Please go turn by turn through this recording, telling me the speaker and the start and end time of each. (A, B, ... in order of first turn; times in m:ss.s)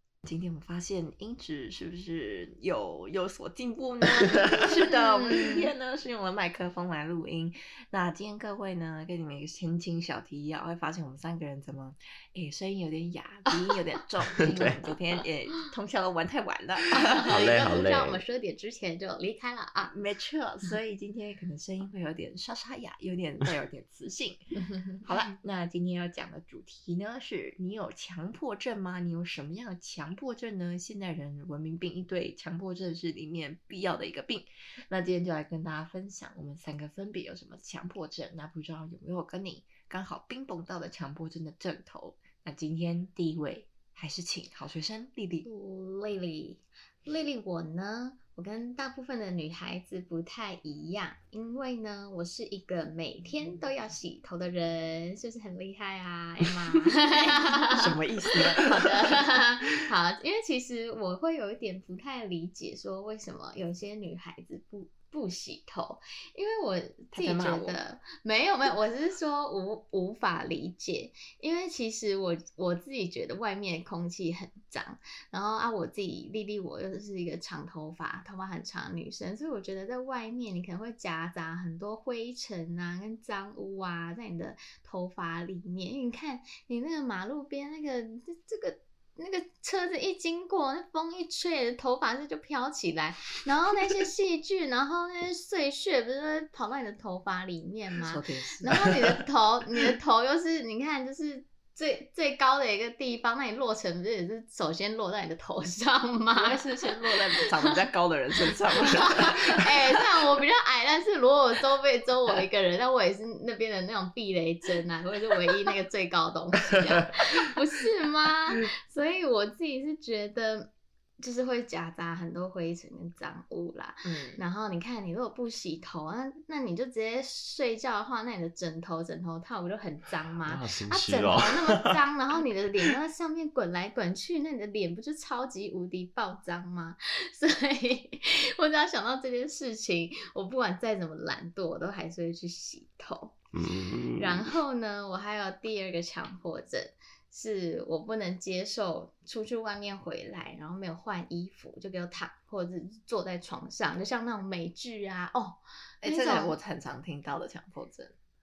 0:00.2-0:17.3 A
0:04.8-0:05.7 B
0:14.3-0:14.8 C
0:16.9-0:20.0 B
0:17.1-0:18.2 C
0:19.9-0:24.4 A
0:25.0-0:45.5 A
0:45.4-1:46.6 B
0:57.6-0:59.0 A
1:07.1-1:07.8 A
1:38.0-1:38.8 A
1:46.3-1:49.9 A
1:47.4-1:47.8 B
1:48.7-2:23.4 B
2:04.0-2:04.4 A
2:10.5-2:12.0 C
2:23.5-2:24.5 C
2:24.2-2:36.6 B
2:36.0-2:38.1 A